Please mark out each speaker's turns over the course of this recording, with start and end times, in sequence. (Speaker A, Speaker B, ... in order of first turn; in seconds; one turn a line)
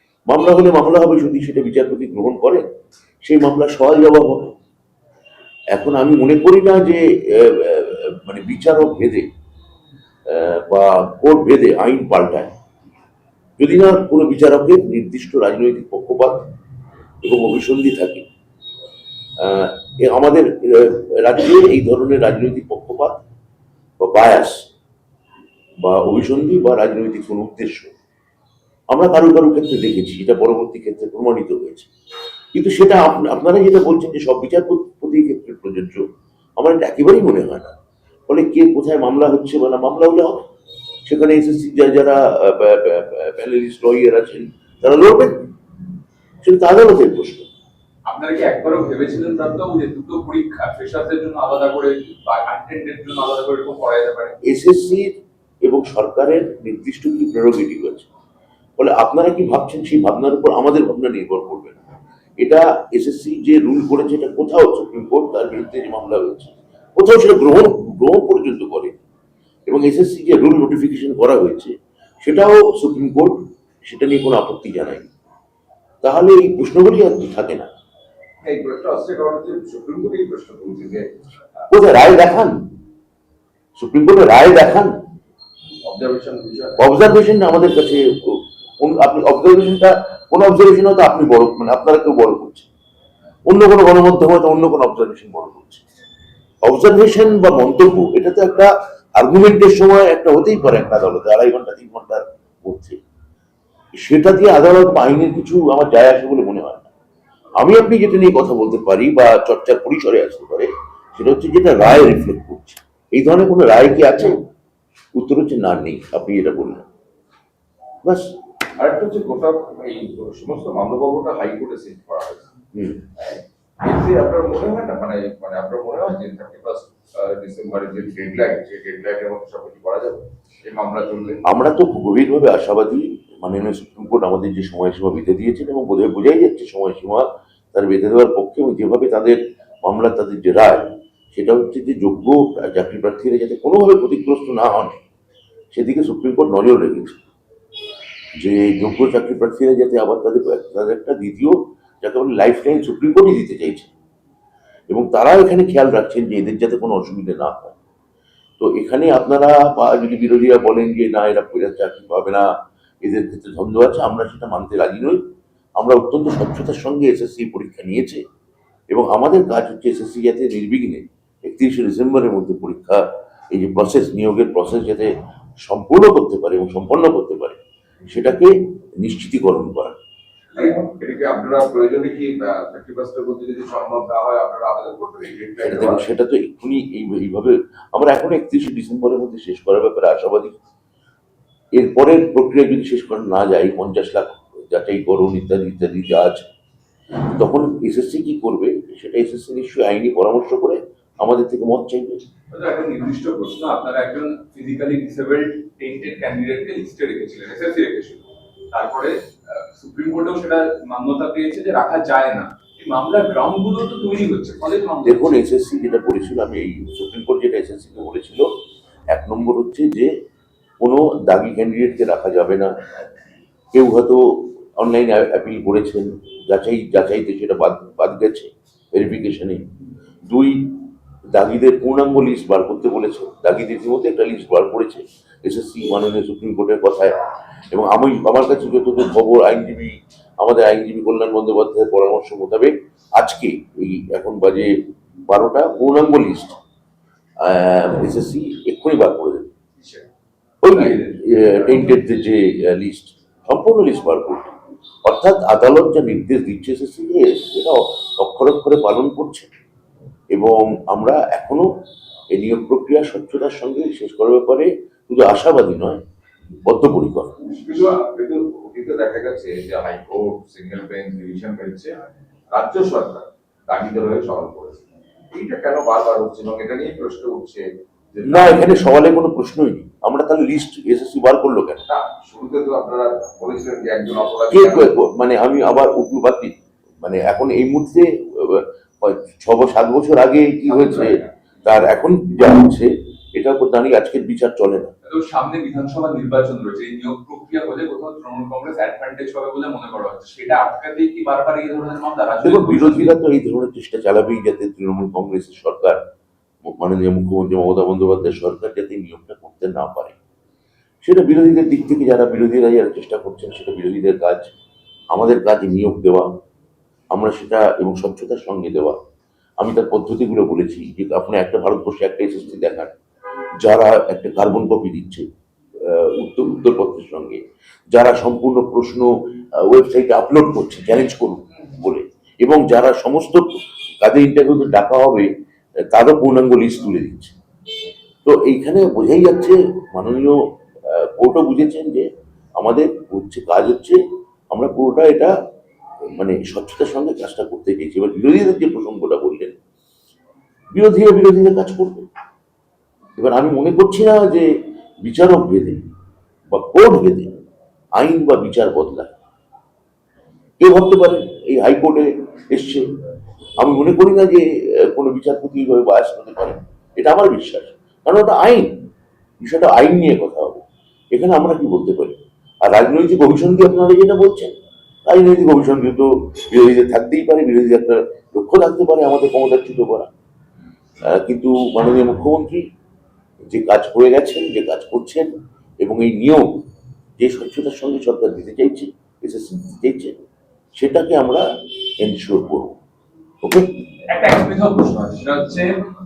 Speaker A: 0.3-2.6
Speaker A: 3.2-4.5
Speaker A: 5.7-9.3
Speaker A: 10.3-12.5
Speaker A: 13.6-16.4
Speaker A: 17.2-18.2
Speaker A: 19.4-23.2
Speaker A: 24.0-24.6
Speaker A: 25.8-27.9
Speaker A: 28.9-31.9
Speaker A: 32.5-36.0
Speaker A: 36.6-37.7
Speaker A: 38.3-40.4
Speaker A: 41.1-45.4
Speaker A: 46.4-47.5
Speaker B: 48.0-54.4
Speaker A: 54.4-58.1
Speaker A: 58.8-61.8
Speaker A: 62.4-69.0
Speaker A: 69.7-75.1
Speaker A: 76.0-77.7
Speaker C: 78.4-81.1
Speaker A: 81.7-82.5
Speaker A: 83.8-84.9
Speaker C: 85.8-86.9
Speaker A: 86.8-92.7
Speaker A: 93.5-95.8
Speaker A: 96.6-103.0
Speaker A: 104.0-106.9
Speaker A: 107.6-114.4
Speaker A: 115.2-116.9
Speaker A: 118.0-118.3
Speaker C: 118.8-122.5
Speaker A: 122.7-123.0
Speaker C: 123.2-131.4
Speaker A: 131.4-145.0
Speaker A: 145.7-147.2
Speaker A: 148.4-153.9
Speaker A: 154.9-157.7
Speaker A: 158.6-162.4
Speaker A: 163.0-165.2
Speaker A: 165.8-168.2
Speaker A: 168.9-175.1
Speaker A: 175.6-179.9
Speaker C: 180.5-186.1
Speaker A: 185.6-190.6
Speaker A: 191.7-196.4
Speaker A: 197.2-202.2
Speaker B: 202.5-215.4
Speaker A: 215.0-218.5
Speaker A: 219.1-220.1
Speaker A: 220.8-222.7
Speaker A: 223.7-229.6
Speaker A: 230.3-230.8
Speaker A: 231.3-237.1
Speaker A: 237.7-244.7
Speaker A: 245.3-246.6
Speaker A: 247.4-249.5
Speaker B: 249.8-250.1
Speaker A: 250.6-254.5
Speaker B: 250.7-251.3
Speaker A: 255.0-259.5
Speaker A: 260.3-261.7
Speaker A: 262.3-266.0
Speaker A: 266.6-267.3
Speaker C: 267.5-271.9
Speaker C: 272.5-278.8
Speaker A: 278.2-281.8
Speaker C: 281.9-284.9
Speaker A: 284.5-294.9
Speaker C: 290.6-291.3
Speaker B: 295.1-303.1
Speaker A: 302.4-306.0
Speaker A: 306.6-310.2
Speaker A: 311.0-314.5
Speaker A: 315.1-316.3
Speaker A: 317.1-319.0
Speaker A: 319.6-322.9
Speaker A: 323.6-325.2
Speaker A: 325.8-327.4
Speaker A: 327.9-329.1
Speaker A: 329.6-335.3
Speaker A: 335.9-337.3
Speaker A: 338.2-340.4
Speaker A: 340.9-344.0
Speaker A: 344.5-345.3
Speaker A: 346.1-349.5
Speaker A: 350.7-352.1
Speaker A: 353.2-354.5
Speaker A: 355.0-355.8
Speaker A: 356.5-357.3
Speaker A: 358.0-359.1
Speaker A: 360.6-362.9
Speaker A: 363.6-368.8
Speaker A: 369.4-380.1
Speaker A: 381.0-382.6
Speaker A: 383.4-386.6
Speaker A: 387.2-390.1
Speaker A: 390.8-391.4
Speaker A: 392.0-392.8
Speaker A: 393.4-393.7
Speaker B: 394.1-395.7